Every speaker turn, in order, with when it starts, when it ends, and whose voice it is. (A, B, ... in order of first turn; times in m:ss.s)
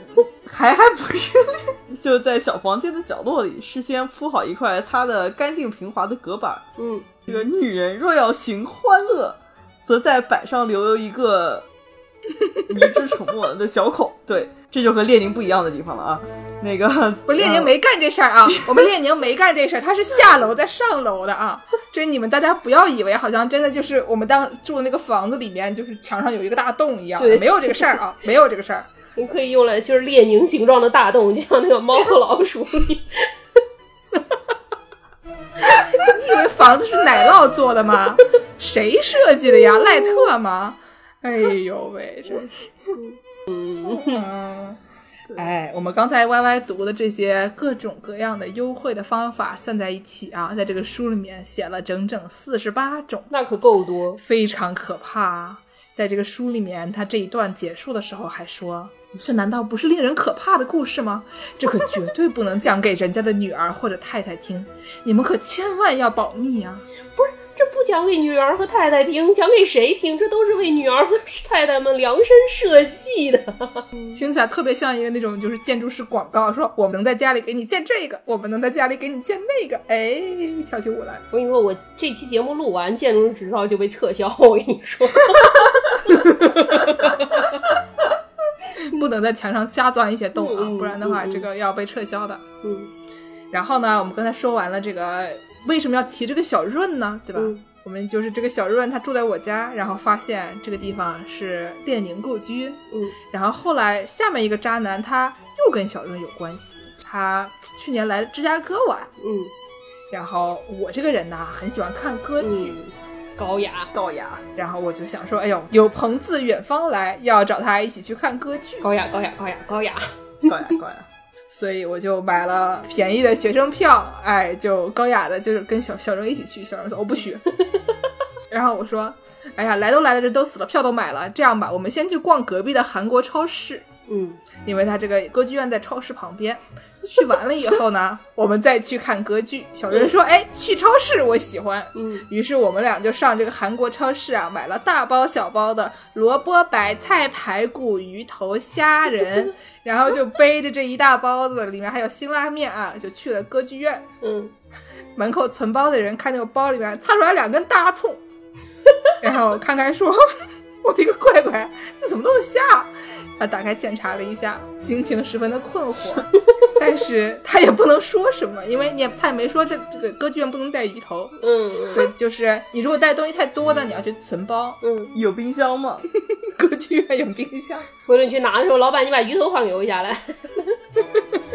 0:00.3-0:06.6 A
0:06.8-0:07.1 B
0:07.3-0:11.6 A
0:12.7-0:17.7 A
0:17.3-0:28.9 C
0:27.2-0:27.9 B
0:29.2-0:33.3 B
0:35.6-0:42.6 C
0:42.9-0:44.2 B
0:43.8-0:44.8 C
0:45.3-0:53.3 C
0:53.3-0:54.2 B
0:54.2-1:06.8 C
1:07.2-1:14.2 B
1:14.1-1:21.2 C
1:21.3-1:27.4 B
1:26.1-1:27.4 C
1:28.8-1:32.4 C
1:30.4-1:31.4 B
1:32.6-1:32.9 B
1:33.5-1:42.8 C
1:37.3-1:37.6 B
1:43.3-1:49.1 C
1:49.2-1:49.5 B
1:50.1-1:52.7 C
1:52.4-1:53.9 B
1:53.9-1:54.4 A
1:54.6-1:58.9 C
1:58.8-2:00.5 B
2:00.4-2:01.0 A
2:01.5-2:07.4 C
2:08.5-2:13.9 C
2:14.1-2:14.4 B
2:14.6-2:34.1 C
2:21.9-2:22.2 B
2:34.2-2:34.5 B
2:35.2-2:38.2 C
2:39.2-2:40.2 C
2:40.8-2:51.4 C
2:51.4-2:52.1 B
2:51.9-2:54.8 C
2:54.8-2:55.1 B
2:55.1-2:56.0 A
2:56.2-2:57.9 C
2:58.0-3:00.8 B